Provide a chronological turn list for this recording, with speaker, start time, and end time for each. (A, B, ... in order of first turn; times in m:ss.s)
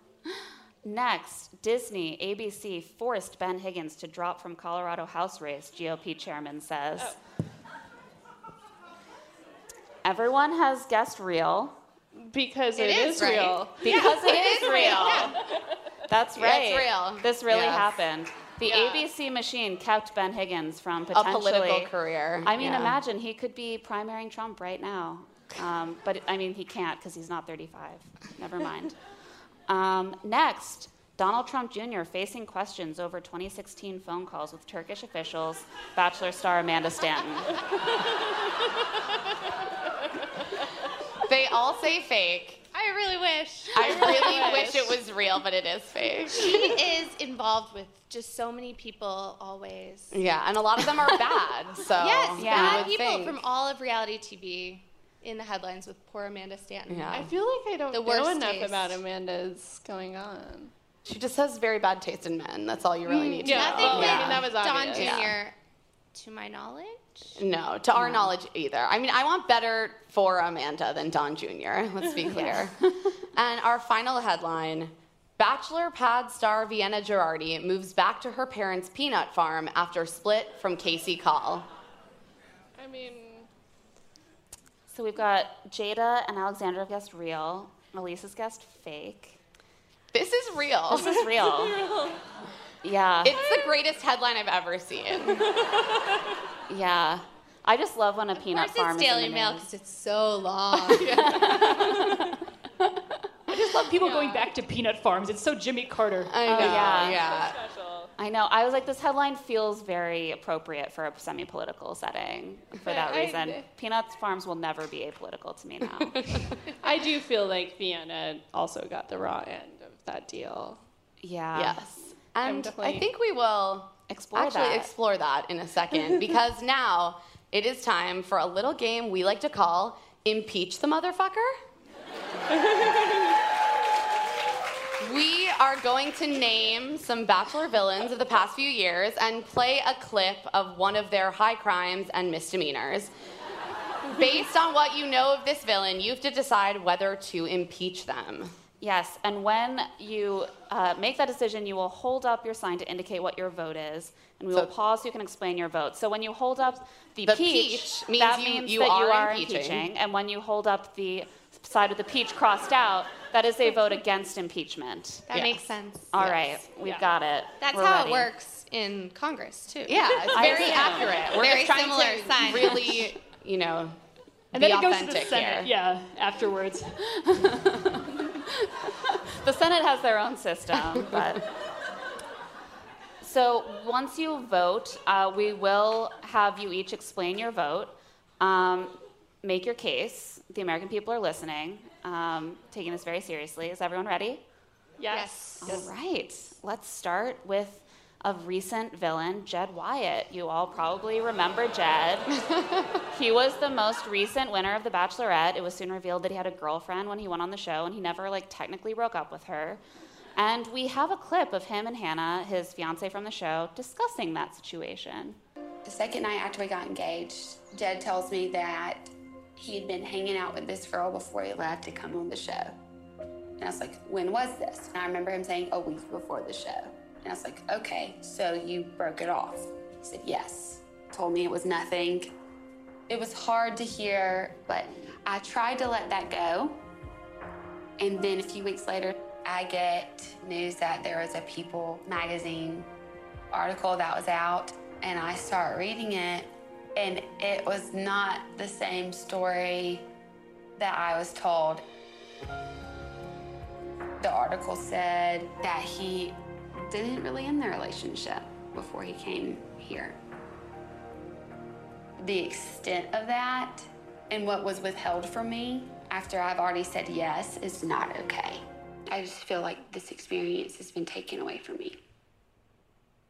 0:00.3-0:07.2 A
0:10.0-0:11.7 A
0:12.2-0:14.0 B
0:12.8-0:13.5 C
0:12.8-0:15.3 D
0:13.8-0:15.4 A
0:14.3-0:15.2 C
0:16.1-0:21.9 A
0:16.4-0:17.8 D
0:18.6-0:19.0 B
0:21.1-0:23.0 D
0:22.4-0:28.9 A
0:29.7-0:37.5 A
0:41.3-0:42.6 D
0:42.7-0:44.8 C
0:43.7-0:46.7 D
0:43.9-0:44.9 B
0:46.3-0:50.2 C
0:50.1-0:53.4 D
0:52.0-0:57.3 C
0:52.4-0:52.9 A
0:56.9-0:57.3 D
0:57.1-1:00.7 B
0:57.9-0:59.0 C
1:01.0-1:05.4 D
1:03.3-1:05.1 B
1:03.4-1:05.5 C
1:06.1-1:07.4 C
1:07.4-1:12.8 D
1:08.0-1:08.3 A
1:12.3-1:12.7 A
1:13.3-1:21.7 D
1:22.8-1:23.5 B
1:24.9-1:29.4 A
1:30.1-1:31.1 D
1:30.9-1:31.8 A
1:30.9-1:32.2 B
1:32.8-1:33.4 A
1:33.2-1:35.4 D
1:36.7-1:39.6 A
1:38.4-1:41.4 C
1:40.9-1:41.5 D
1:43.5-1:46.5 E
1:46.3-1:47.6 D
1:46.4-1:47.2 A
1:47.1-1:48.1 B
1:48.2-1:56.4 A
1:52.8-1:53.6 B
1:56.0-1:56.4 D
1:56.8-2:00.8 B
2:01.2-2:01.9 A
2:01.5-2:11.5 D
2:02.4-2:03.0 B
2:04.1-2:04.9 A
2:15.0-2:23.1 D
2:24.1-2:28.5 D
2:28.8-2:45.4 A
2:37.2-2:39.9 D
2:45.3-2:46.3 C
2:45.3-2:45.6 D
2:46.1-2:48.3 A
2:47.6-2:53.1 C
2:49.9-2:54.0 D
2:50.3-2:52.8 A
2:54.5-2:56.9 E
2:54.5-2:55.7 D
2:57.2-2:58.4 A
2:59.4-3:01.4 A
3:03.2-3:14.4 A
3:15.0-3:15.8 E
3:15.1-3:15.8 C
3:15.6-3:22.3 A
3:23.1-3:29.8 A
3:30.4-3:35.4 A
3:35.8-3:42.7 F
3:43.6-3:52.3 F
3:53.1-3:56.8 F
3:58.0-4:02.9 F
4:03.5-4:10.0 F
4:10.8-4:11.8 F
4:14.2-4:20.1 F
4:22.2-4:32.0 F